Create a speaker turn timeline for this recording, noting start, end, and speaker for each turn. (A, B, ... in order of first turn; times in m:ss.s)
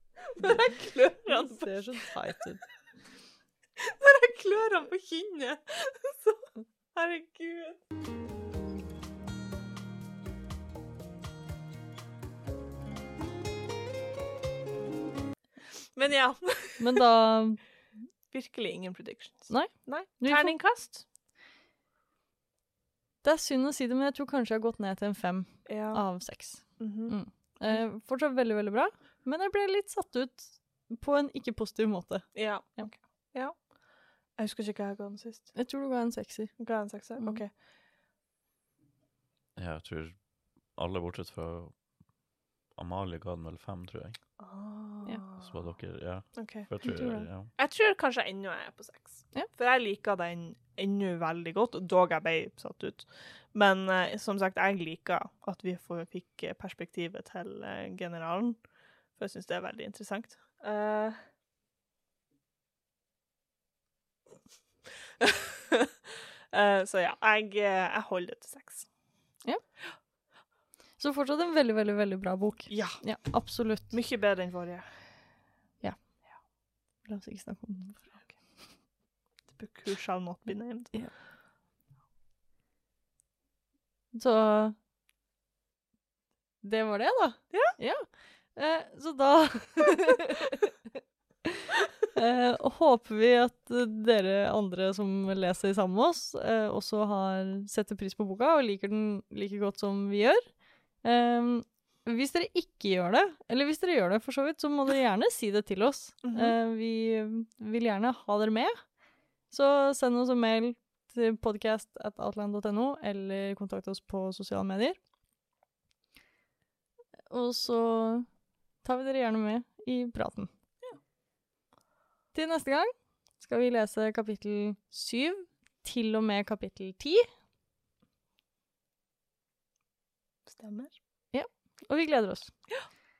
0:00.3-0:02.0 A
0:01.2-0:02.6 B
0:03.8-0:07.8 A
0:15.8-0:17.0 A
0:16.8-0:17.6 B
0:18.3-0:21.0 A
0:19.5-0:20.5 B
0:23.2-0:32.9 B
0:25.6-0:26.0 A
0:26.8-0:27.1 A
0:32.4-0:33.8 A
0:34.4-0:35.6 A
0:35.6-0:36.6 B
0:36.6-0:37.5 A
0:39.6-0:41.8 C
0:42.8-0:44.2 C
0:44.4-0:45.5 A
0:45.4-0:47.5 C
0:46.3-0:46.7 A
0:46.8-0:47.3 B
0:47.6-0:58.6 A
0:59.2-1:01.2 A
1:05.2-1:05.9 A
1:06.5-1:08.9 A
1:11.0-1:13.9 B
1:12.7-1:13.0 A
1:13.9-1:15.0 A
1:17.0-1:18.2 B
1:19.5-1:21.0 A
1:24.1-1:24.8 B
1:26.6-1:30.6 B
1:27.5-1:27.8 A
1:32.1-1:40.5 B
1:41.0-1:48.8 B
1:46.2-1:46.5 A
1:49.5-1:55.0 B
1:57.3-1:58.3 B
1:58.8-2:00.5 B
2:02.3-2:07.3 B
2:10.4-2:11.0 A
2:11.3-2:12.6 B